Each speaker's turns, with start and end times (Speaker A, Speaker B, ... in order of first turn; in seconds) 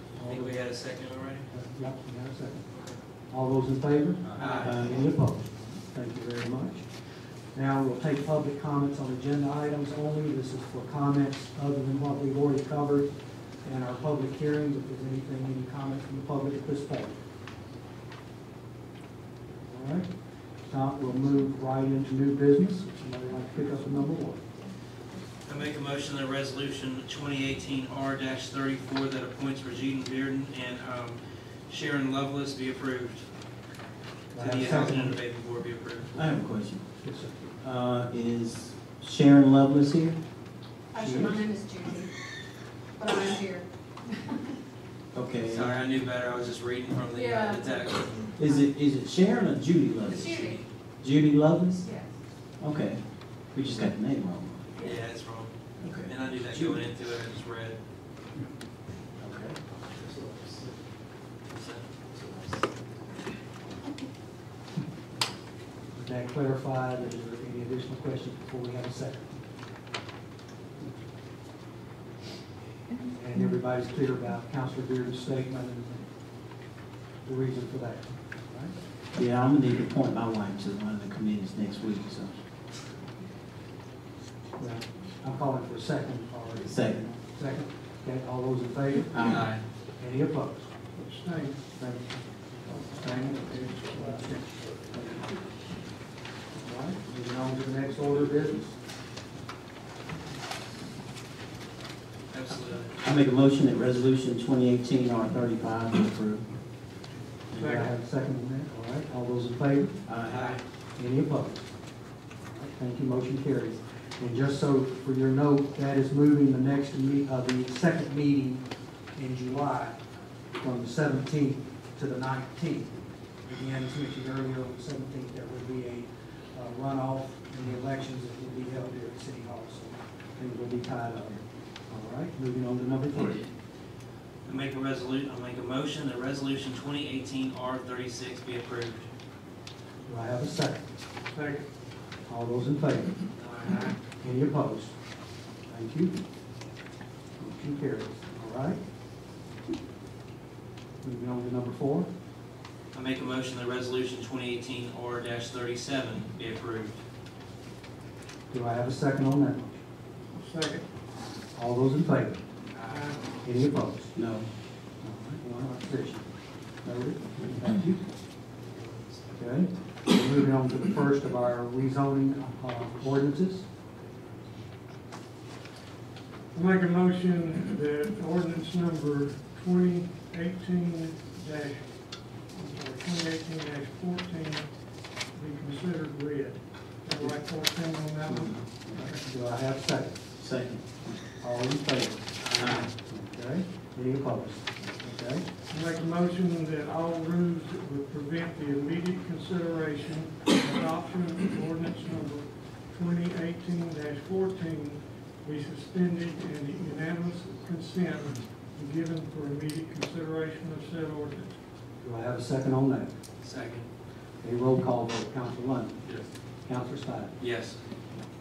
Speaker A: 0.1-0.6, 1.5-2.6, 3.3-6.9, 7.5-17.2, 19.6-20.1, 20.6-24.4, 34.3-35.2, 37.0-37.5, 41.0-41.4, 65.9-69.4, 73.1-76.0, 77.2-78.8, 84.6-89.4, 90.0-90.7, 91.8-95.3, 96.5-98.8, 107.5-110.0, 111.0-111.7, 112.5-120.0, 120.5-133.5, 140.1-140.8, 142.3-143.2, 144.2-144.9, 145.7-146.1, 147.4-148.8, 151.0-152.1, 158.5-159.8, 161.6-162.4, 163.4-164.1, 165.0-166.3, 166.8-168.0, 169.3-173.7, 188.9-190.2, 191.4-195.4, 212.0-213.1, 214.4-216.0, 216.7-217.4
Speaker B: 0.3-1.5, 4.3-5.0, 25.4-33.2, 34.4-36.1, 45.5-48.4, 54.8-57.8, 61.5-62.0, 89.2-89.6, 102.3-103.0, 110.3-110.6, 134.4-139.1, 152.9-157.0, 168.6-169.4, 192.4-192.8, 213.4-213.9, 217.4-217.8
Speaker C: 4.3-5.0, 36.1-36.9, 37.6-40.2, 45.1-45.8, 48.4-51.9, 52.6-53.0, 53.5-54.7, 55.8-56.8, 59.2-60.6, 62.2-62.6, 79.2-82.3, 86.7-87.1, 89.1-89.5, 103.0-106.5, 110.1-110.6, 164.2-164.5, 190.4-191.2, 192.6-192.9
Speaker D: 40.9-42.1, 43.0-44.5, 47.1-48.6, 50.1-50.6, 51.8-52.1
Speaker E: 90.9-91.6, 92.7-94.6, 107.6-107.9, 141.3-141.7, 143.4-143.9, 160.3-160.8, 162.8-163.2, 176.5-184.8, 185.3-189.2, 195.7-211.6